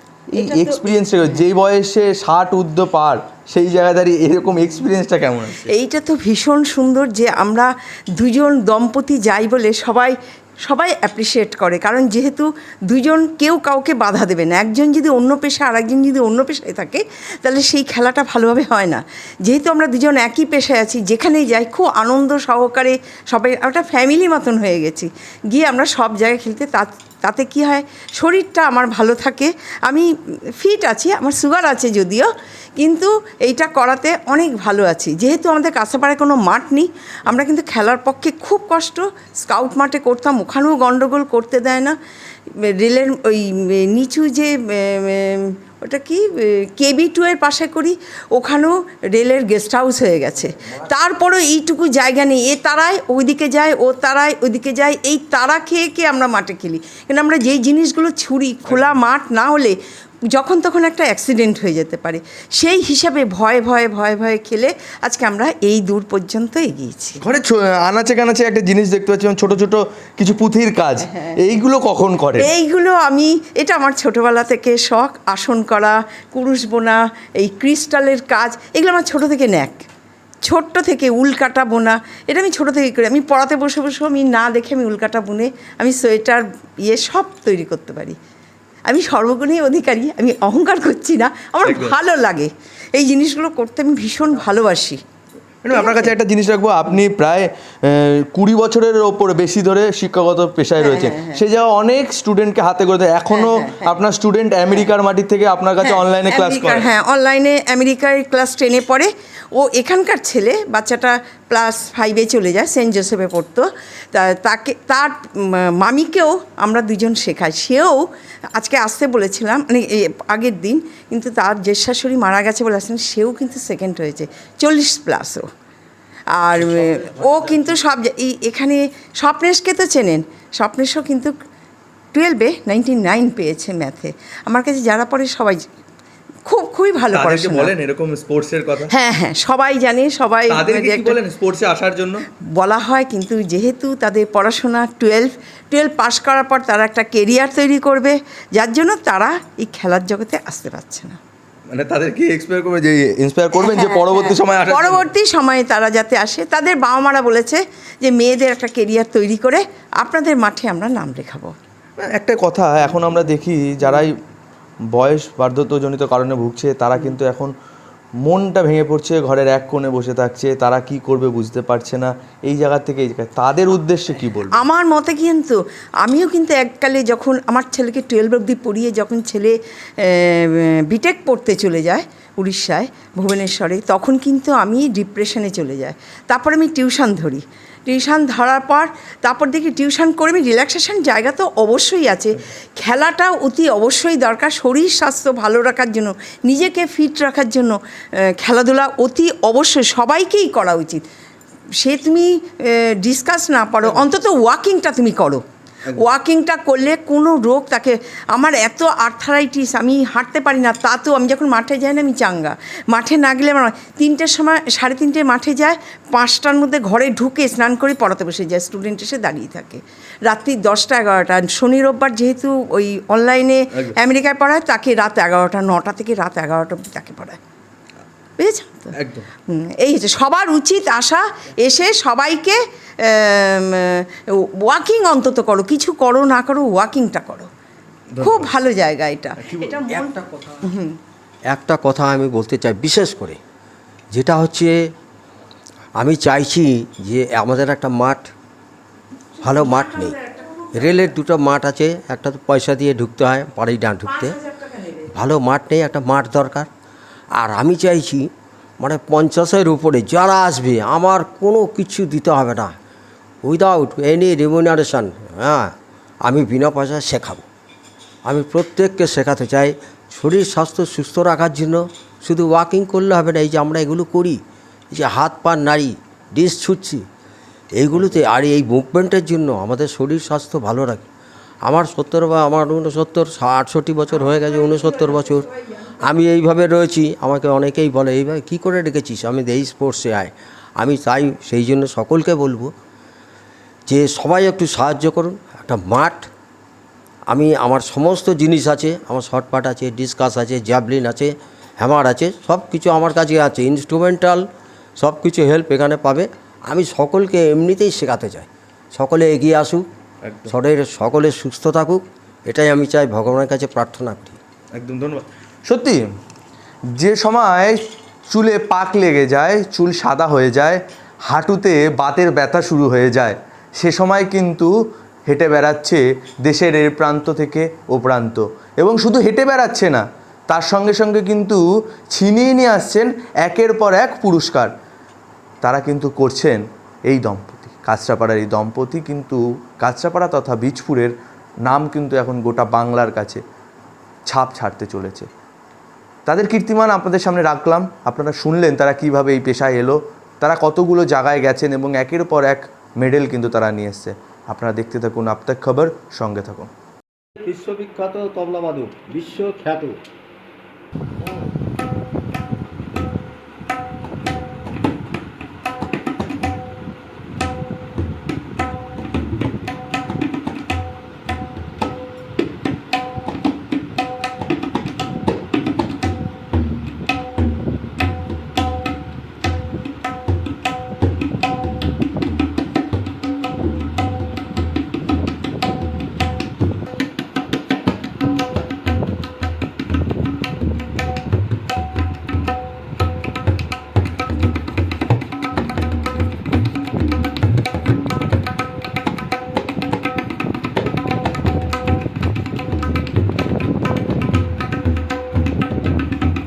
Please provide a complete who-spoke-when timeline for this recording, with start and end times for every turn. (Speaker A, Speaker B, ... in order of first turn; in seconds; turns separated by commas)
Speaker A: 0.4-1.4, Speaker B: 0.4-5.7, Speaker A: 5.7-30.1, Speaker A: 30.6-42.0, Speaker A: 42.6-59.8, Speaker A: 60.3-67.2, Speaker B: 67.2-72.5, Speaker A: 72.4-79.8, Speaker A: 80.4-88.2, Speaker A: 88.9-95.0, Speaker B: 91.6-92.0, Speaker B: 95.6-106.9, Speaker A: 95.7-96.1, Speaker A: 100.8-101.4, Speaker A: 103.3-104.0, Speaker A: 105.8-118.0, Speaker A: 118.5-125.4, Speaker A: 126.3-131.3, Speaker C: 126.8-127.3, Speaker A: 132.1-135.6, Speaker A: 136.5-137.7, Speaker B: 137.1-138.9, Speaker A: 138.9-141.2, Speaker B: 140.5-142.2, Speaker A: 142.6-151.2, Speaker B: 151.7-155.1, Speaker A: 153.6-161.5, Speaker B: 162.0-164.1, Speaker B: 164.9-167.5, Speaker B: 168.2-174.6, Speaker A: 174.5-197.8, Speaker A: 198.4-201.0, Speaker A: 201.8-205.4, Speaker A: 205.9-227.4, Speaker A: 228.4-228.9, Speaker B: 229.0-229.2, Speaker A: 229.5-234.1, Speaker A: 234.6-237.5, Speaker B: 238.1-238.5, Speaker A: 238.2-240.9, Speaker B: 239.4-239.7, Speaker C: 239.9-240.6, Speaker C: 241.5-243.4, Speaker C: 244.1-244.8, Speaker C: 246.0-248.3, Speaker A: 249.4-251.1, Speaker C: 249.4-250.2, Speaker C: 250.7-254.4, Speaker A: 254.0-255.1, Speaker C: 255.1-256.7, Speaker C: 257.4-258.3, Speaker C: 258.8-262.7, Speaker C: 263.4-267.4, Speaker C: 268.2-274.4, Speaker C: 274.9-277.0, Speaker C: 277.8-281.1, Speaker C: 281.6-285.5, Speaker A: 284.8-285.9, Speaker C: 286.0-292.7, Speaker C: 293.9-296.3, Speaker C: 297.3-304.4, Speaker C: 305.0-309.8, Speaker B: 310.2-310.5, Speaker C: 310.5-314.4, Speaker B: 314.8-316.0, Speaker B: 317.0-317.8, Speaker B: 318.3-324.7, Speaker B: 325.3-334.7, Speaker B: 335.6-341.1, Speaker B: 341.7-343.4, Speaker B: 344.3-345.3, Speaker B: 346.3-356.7, Speaker C: 357.4-360.0